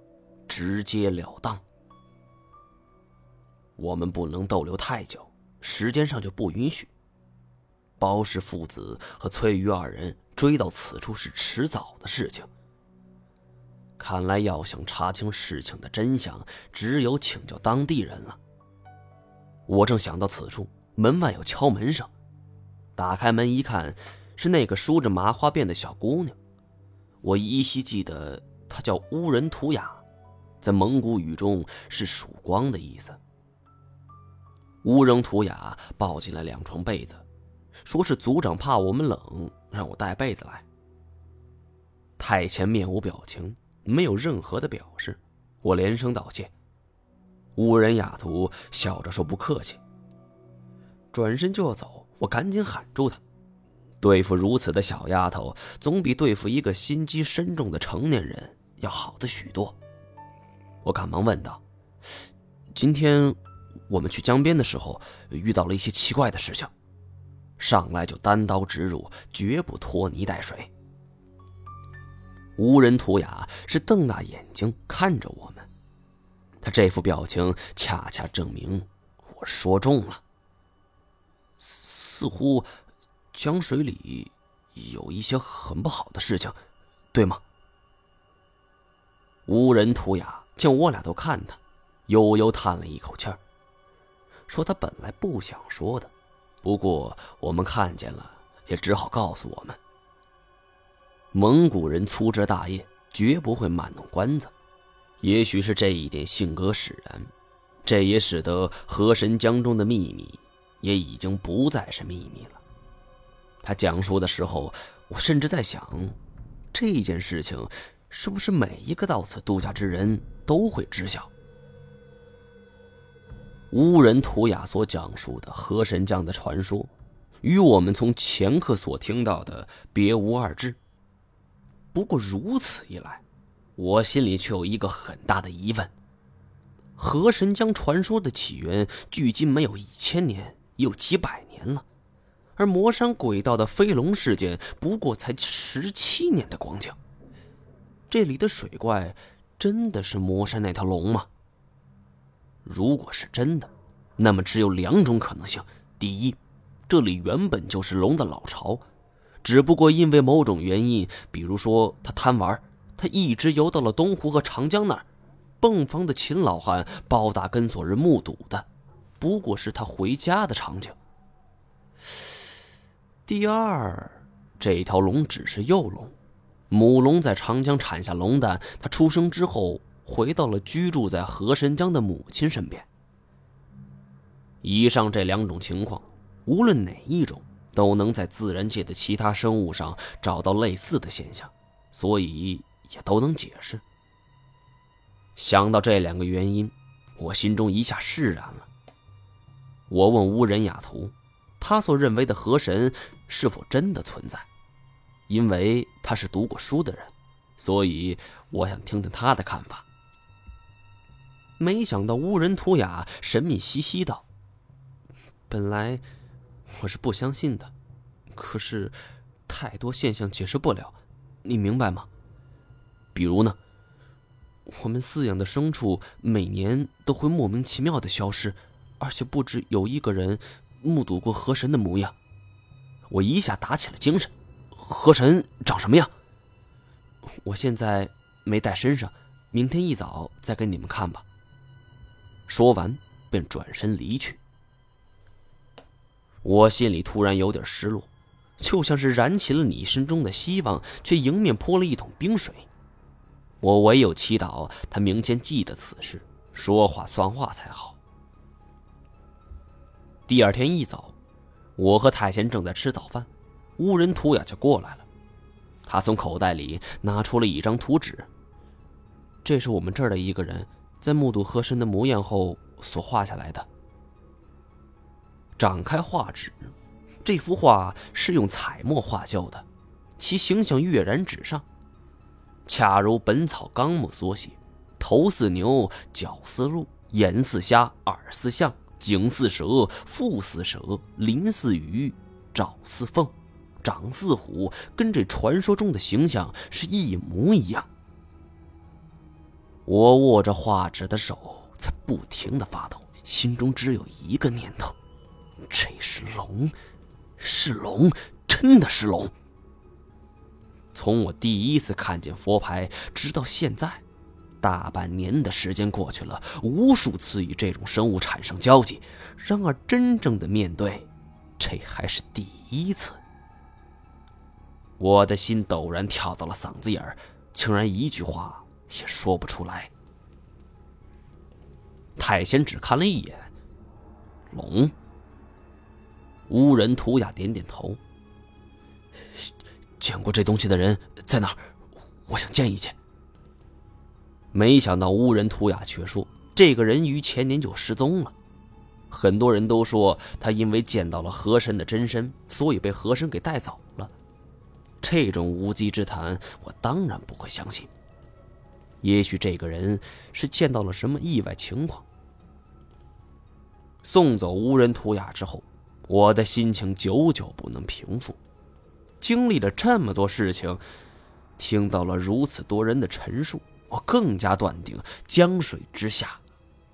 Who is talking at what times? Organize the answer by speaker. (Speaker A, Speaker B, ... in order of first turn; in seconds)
Speaker A: 0.5-1.6, 3.8-6.9, 8.0-12.5, 14.0-18.4, 19.7-22.1, 22.9-26.4, 27.2-30.0, 30.6-33.2, 34.8-37.2, 37.8-40.6, 42.2-46.5, 47.5-49.8, 51.1-53.2, 54.0-59.8, 60.8-61.6, 62.7-63.4, 63.9-66.7, 67.6-70.7, 72.6-75.7, 76.6-80.2, 81.6-82.7, 83.3-86.6, 87.1-87.4, 89.5-93.4, 94.5-96.1, 96.6-99.8, 101.3-104.5, 105.2-107.3, 107.8-112.6, 113.6-116.2, 116.7-121.3, 123.7-126.9, 127.4-130.8, 131.9-133.2, 133.8-135.9, 137.0-141.8, 142.6-147.0, 148.1-151.3, 152.6-158.8, 159.4-165.1, 165.6-168.7, 169.2-170.9, 173.2-176.1, 176.7-182.8, 184.6-193.8, 195.3-198.7, 199.9-204.5, 205.3-209.8, 211.6-214.2, 215.5-216.0, 216.7-217.7, 218.3-218.9, 219.5-222.1, 223.1-223.6, 224.7-232.1, 233.1-236.1, 237.4-241.2, 242.5-244.4, 246.4-252.7, 253.6-258.0, 260.3-261.1, 261.8-265.1, 265.9-268.3, 269.4-273.7, 275.6-281.6, 282.6-297.9, 299.9-304.9, 305.6-306.7, 307.4-309.3, 310.9-314.0, 314.6-323.2, 325.0-329.9, 332.1-333.5, 334.5-334.9, 336.5-338.0, 339.3-341.6, 342.2-342.9, 344.5-348.3, 349.1-354.1, 355.0-357.9, 359.0-362.0, 364.0-368.4, 369.2-370.8, 371.6-376.4